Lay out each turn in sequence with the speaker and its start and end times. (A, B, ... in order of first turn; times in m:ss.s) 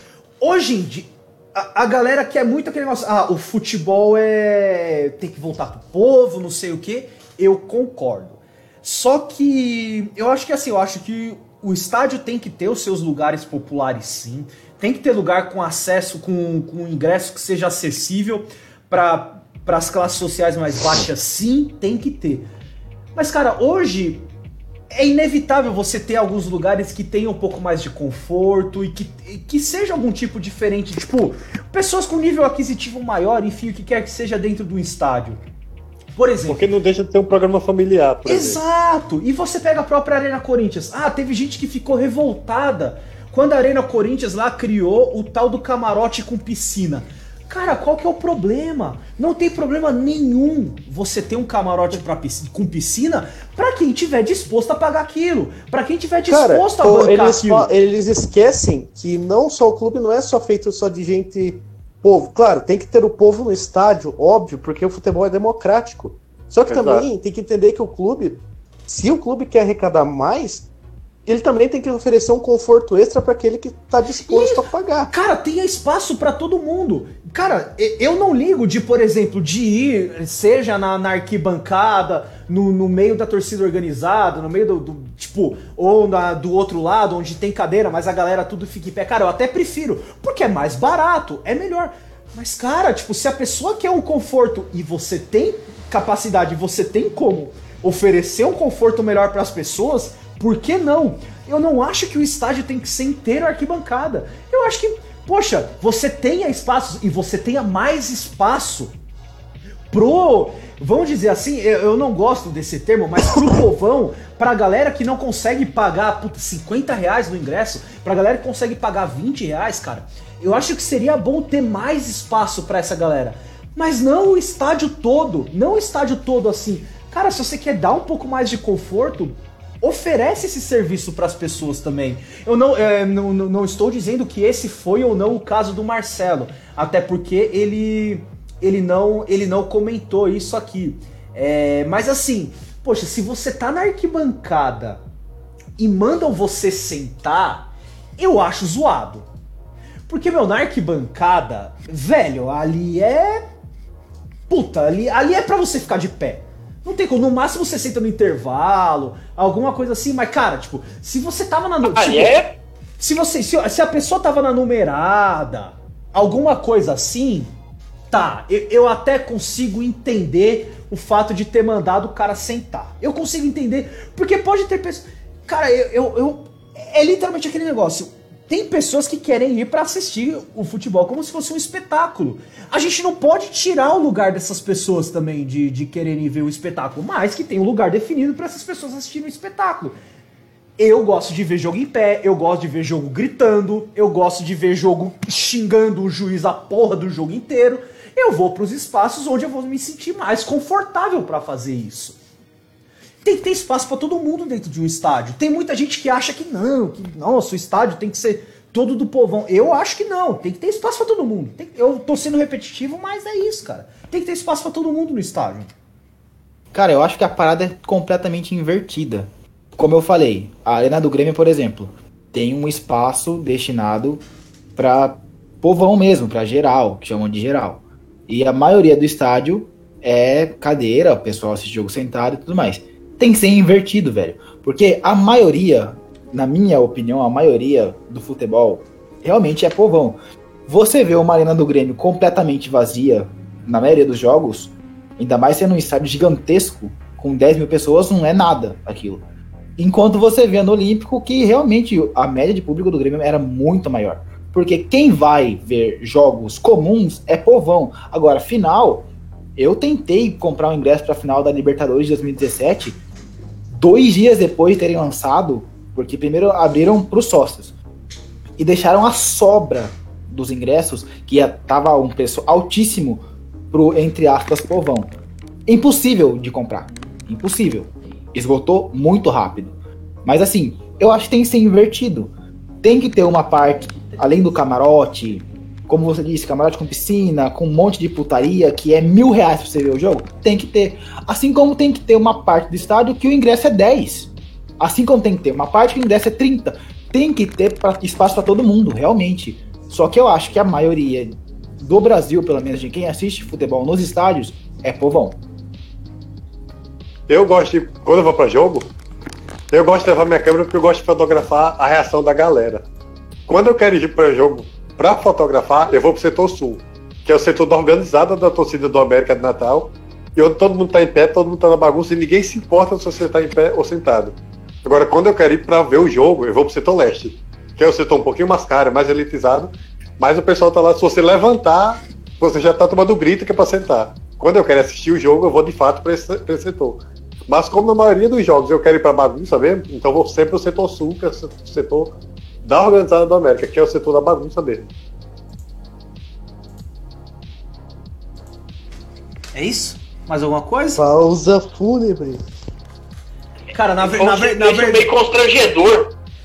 0:00.4-0:22.5 A
0:23.2-0:24.3 A
0:24.9-0:35.4 A
0:36.2-0:36.7 A
0:36.5-0:38.6 B
0:38.2-0:57.7 A
0:56.3-1:10.7 C
1:06.7-1:07.1 B
1:11.3-1:15.1 C
1:14.3-1:48.9 A
1:49.9-2:25.0 A
2:25.8-2:29.3 A
2:30.1-2:33.4 A
2:34.5-2:42.4 A
2:41.9-2:42.6 D
2:43.0-2:47.5 A
2:48.1-3:10.0 A
3:10.8-3:22.2 A
3:23.2-3:35.7 A
3:36.7-3:44.2 E
3:44.8-4:09.2 E
4:09.8-4:19.1 E
4:19.6-4:23.0 E
4:23.7-4:27.8 E
4:28.6-4:35.1 E
4:35.7-5:05.4 E
5:07.3-5:08.9 B
5:09.7-5:12.8 B
5:13.5-5:44.9 B
5:49.6-5:51.0 A
5:51.0-5:52.4 C
5:53.7-5:55.1 A
5:54.0-5:56.1 D